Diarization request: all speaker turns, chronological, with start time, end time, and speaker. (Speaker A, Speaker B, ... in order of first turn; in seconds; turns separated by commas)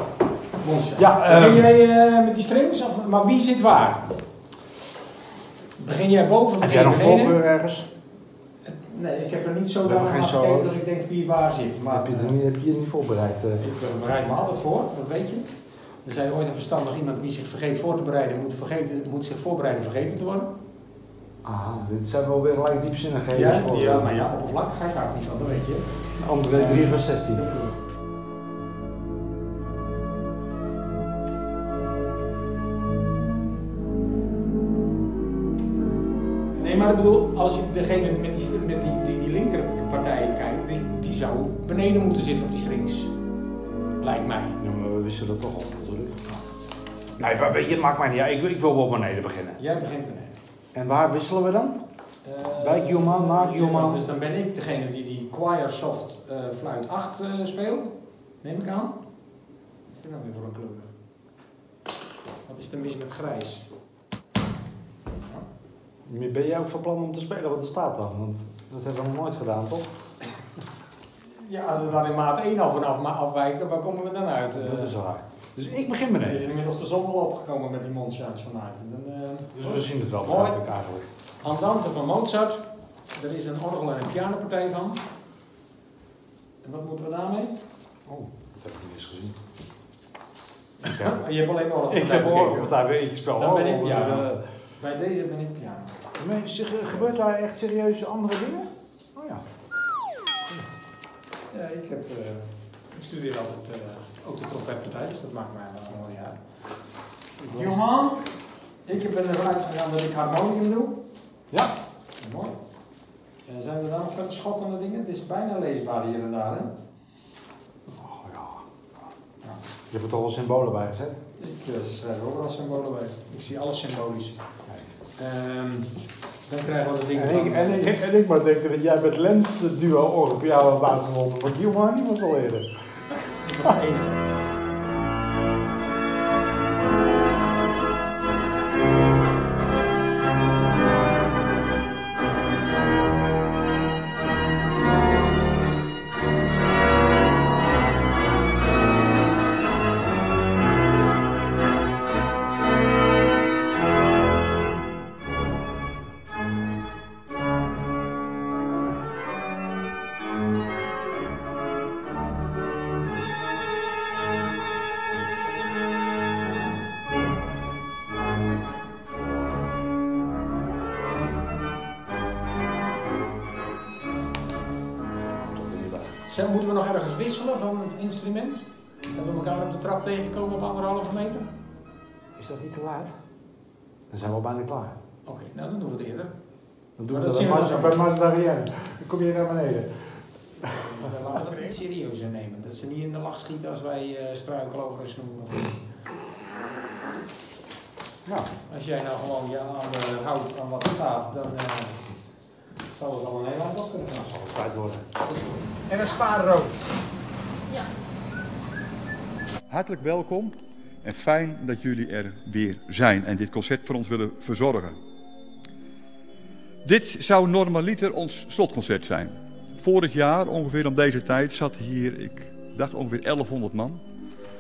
Speaker A: 0.6-4.1, Speaker B: 1.0-1.7, Speaker A: 5.8-7.4, Speaker B: 6.6-7.9, Speaker A: 8.6-12.4, Speaker B: 9.8-10.8, Speaker B: 11.9-13.6, Speaker A: 13.6-15.5, Speaker A: 16.0-20.5, Speaker B: 21.4-24.1, Speaker A: 23.3-25.9, Speaker B: 26.2-27.4, Speaker A: 26.5-27.8, Speaker A: 36.6-43.1, Speaker A: 44.0-44.6, Speaker B: 44.6-46.3, Speaker B: 47.2-49.6, Speaker A: 49.6-50.4, Speaker B: 50.7-51.8, Speaker A: 52.2-59.0, Speaker B: 52.6-54.0, Speaker A: 59.9-60.9, Speaker A: 62.5-63.6, Speaker B: 66.1-69.9, Speaker A: 71.3-75.0, Speaker B: 74.6-76.4, Speaker A: 76.2-80.6, Speaker B: 79.5-81.1, Speaker A: 81.4-85.0, Speaker A: 86.6-87.5, Speaker B: 88.1-89.4, Speaker A: 90.8-92.8, Speaker B: 91.9-94.4, Speaker A: 93.4-96.0, Speaker B: 96.2-99.4, Speaker A: 101.5-106.4, Speaker B: 107.4-107.8, Speaker A: 107.4-108.2, Speaker A: 108.8-111.0, Speaker A: 112.2-112.5, Speaker A: 113.5-116.7, Speaker B: 117.9-118.7, Speaker B: 119.9-121.2, Speaker A: 121.4-124.4, Speaker A: 125.2-125.9, Speaker A: 126.5-128.0, Speaker B: 127.2-133.7, Speaker A: 133.4-134.3, Speaker B: 175.2-176.2, Speaker A: 176.3-181.5, Speaker B: 182.4-183.2, Speaker B: 184.1-185.0, Speaker A: 185.2-186.3, Speaker B: 187.0-190.0, Speaker A: 187.1-188.0, Speaker A: 190.8-195.8, Speaker A: 198.7-202.0, Speaker A: 202.9-204.3, Speaker B: 204.2-205.1, Speaker A: 205.8-206.8, Speaker C: 209.7-215.0, Speaker C: 216.8-224.0